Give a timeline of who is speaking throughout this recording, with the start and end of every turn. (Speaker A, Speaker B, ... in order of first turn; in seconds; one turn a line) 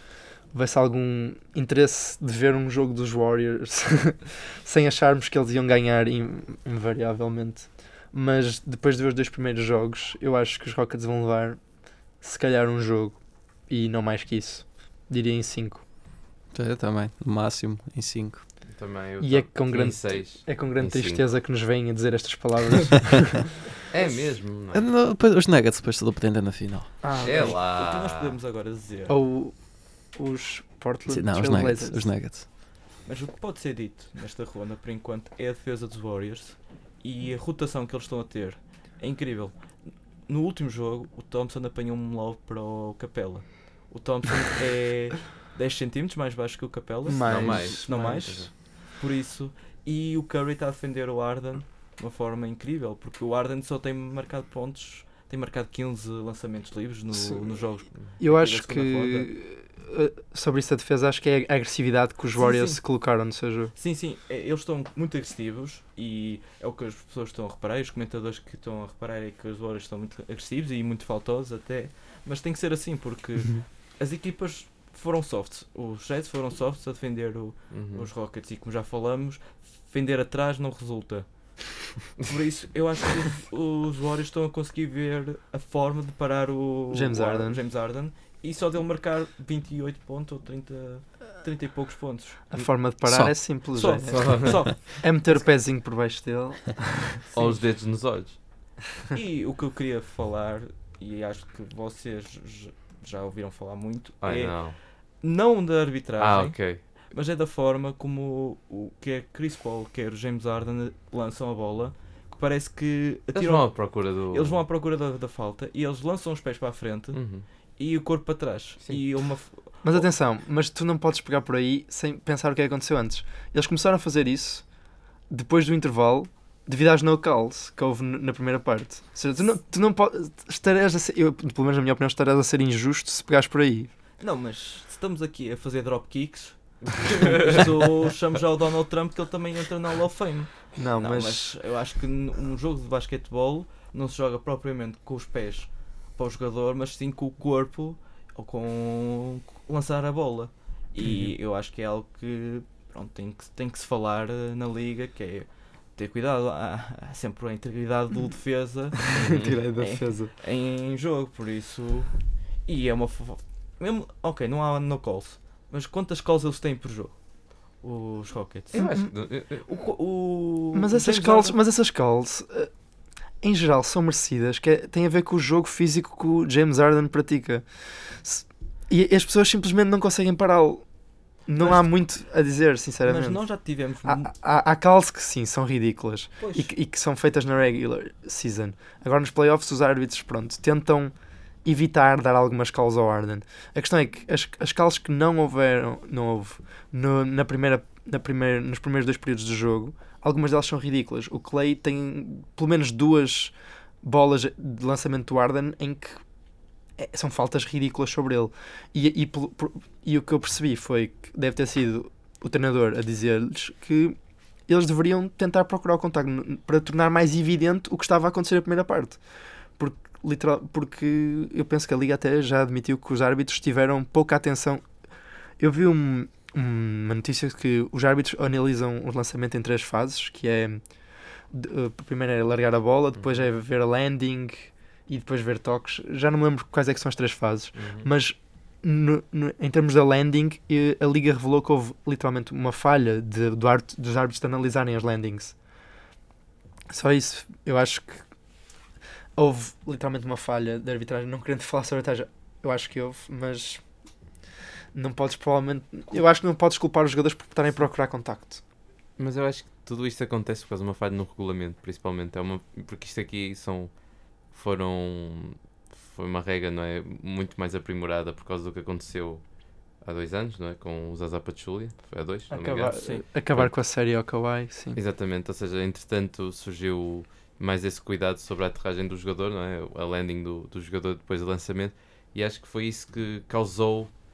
Speaker A: 0.5-11.6
Speaker A: 12.2-15.8
Speaker B: 16.5-18.4
Speaker C: 18.7-21.2
Speaker A: 19.2-23.5
Speaker C: 23.9-24.9
Speaker B: 24.7-26.9
Speaker A: 27.0-27.6
Speaker C: 27.2-28.4
Speaker D: 27.2-29.2
Speaker A: 29.1-29.5
Speaker A: 30.1-32.1
Speaker B: 31.1-32.5
Speaker D: 33.0-59.3
Speaker A: 47.1-48.5
Speaker C: 47.3-48.5
Speaker A: 57.1-57.4
Speaker A: 58.2-63.7
Speaker D: 62.4-62.8
Speaker D: 63.8-92.4
Speaker C: 77.7-78.1
Speaker A: 86.9-87.6
Speaker A: 92.5-97.0
Speaker B: 93.0-93.6
Speaker D: 93.8-95.5
Speaker C: 94.1-94.9
Speaker D: 97.3-97.7
Speaker C: 97.3-98.4
Speaker D: 99.1-120.0
Speaker C: 104.2-104.8
Speaker C: 106.2-106.8
Speaker C: 113.3-114.6
Speaker C: 117.1-117.5
Speaker A: 119.8-124.7
Speaker A: 125.3-133.9
Speaker D: 134.2-171.6
Speaker C: 137.0-137.8
Speaker A: 140.8-141.6
Speaker A: 151.0-151.3
Speaker A: 159.2-160.3
Speaker C: 159.2-159.6
Speaker C: 168.7-169.7
Speaker A: 168.7-169.1
Speaker A: 170.7-172.7
Speaker A: 173.4-180.9
Speaker A: 181.4-206.2
Speaker D: 181.6-182.0
Speaker D: 183.1-184.3
Speaker D: 186.4-186.7
Speaker A: 207.0-219.2
Speaker A: 219.8-224.9
Speaker A: 225.6-230.8
Speaker A: 231.5-245.6
Speaker C: 237.8-238.1
Speaker A: 246.9-248.3
Speaker A: 249.4-253.8
Speaker A: 254.9-258.6
Speaker C: 259.2-269.4
Speaker C: 270.0-273.7
Speaker A: 272.5-275.0
Speaker D: 273.0-273.2
Speaker C: 274.9-284.1